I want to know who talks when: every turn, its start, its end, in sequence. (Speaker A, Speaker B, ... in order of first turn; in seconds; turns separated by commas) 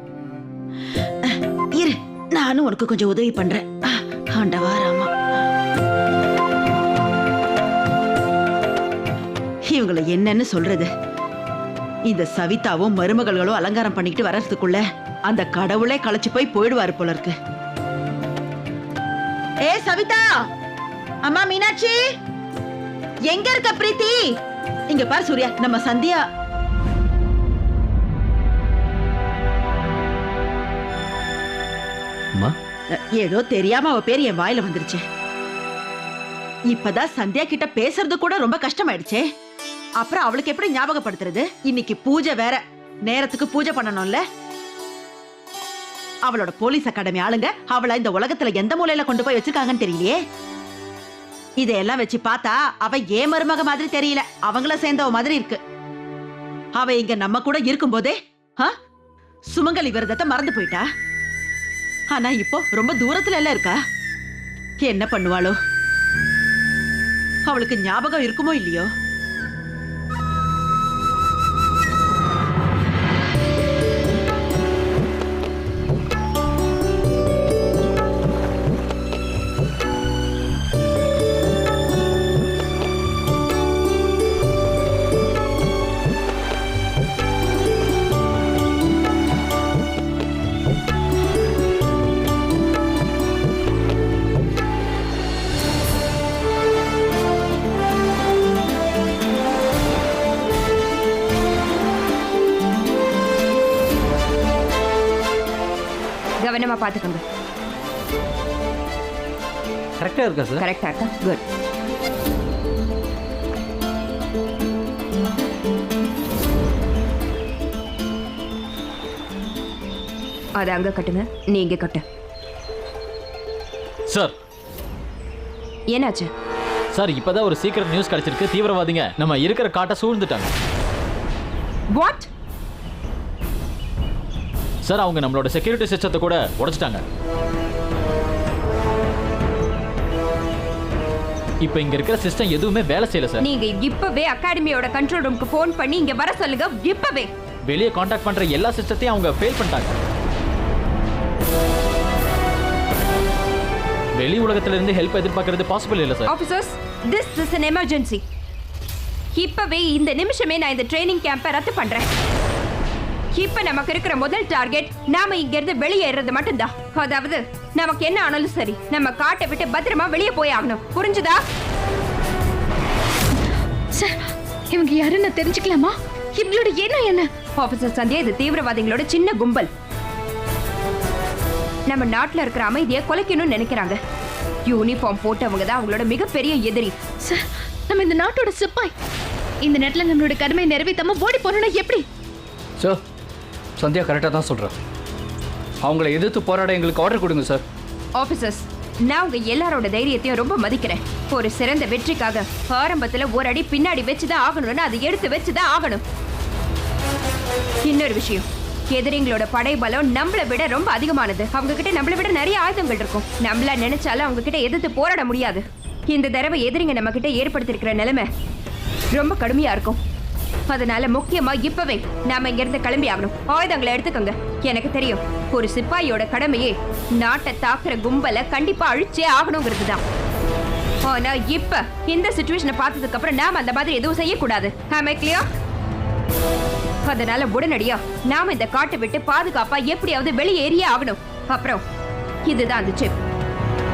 Speaker A: 1.2-5.1, Speaker A: 9.7-10.9, Speaker A: 12.1-17.4, Speaker A: 19.6-20.5, Speaker A: 21.2-22.0, Speaker A: 23.3-24.3, Speaker A: 24.9-26.2, Speaker A: 32.9-35.0, Speaker A: 36.7-39.2, Speaker A: 40.0-44.2, Speaker A: 46.3-50.2, Speaker A: 51.6-55.6, Speaker A: 56.8-58.7, Speaker A: 59.5-60.9, Speaker A: 62.1-63.8, Speaker A: 64.8-65.6, Speaker A: 67.5-68.9, Speaker B: 106.4-107.2, Speaker C: 110.0-110.5, Speaker B: 110.6-111.4, Speaker B: 120.6-122.0, Speaker C: 124.1-124.3, Speaker B: 125.9-126.3, Speaker C: 126.9-130.5, Speaker B: 131.9-132.3, Speaker C: 134.8-137.0, Speaker C: 141.6-143.4, Speaker B: 143.4-147.3, Speaker C: 147.7-150.0, Speaker C: 154.2-156.3, Speaker B: 156.3-158.2, Speaker B: 159.3-162.1, Speaker B: 163.3-171.4, Speaker D: 173.9-177.3, Speaker B: 177.6-179.7, Speaker B: 181.9-184.0, Speaker B: 184.7-187.0, Speaker D: 187.2-188.9, Speaker D: 189.6-192.1, Speaker E: 193.8-194.8, Speaker E: 195.8-197.7, Speaker B: 198.2-206.0, Speaker B: 207.8-218.3, Speaker B: 219.1-220.0, Speaker B: 220.7-230.0, Speaker B: 231.1-235.5, Speaker B: 237.1-241.8, Speaker B: 242.5-243.1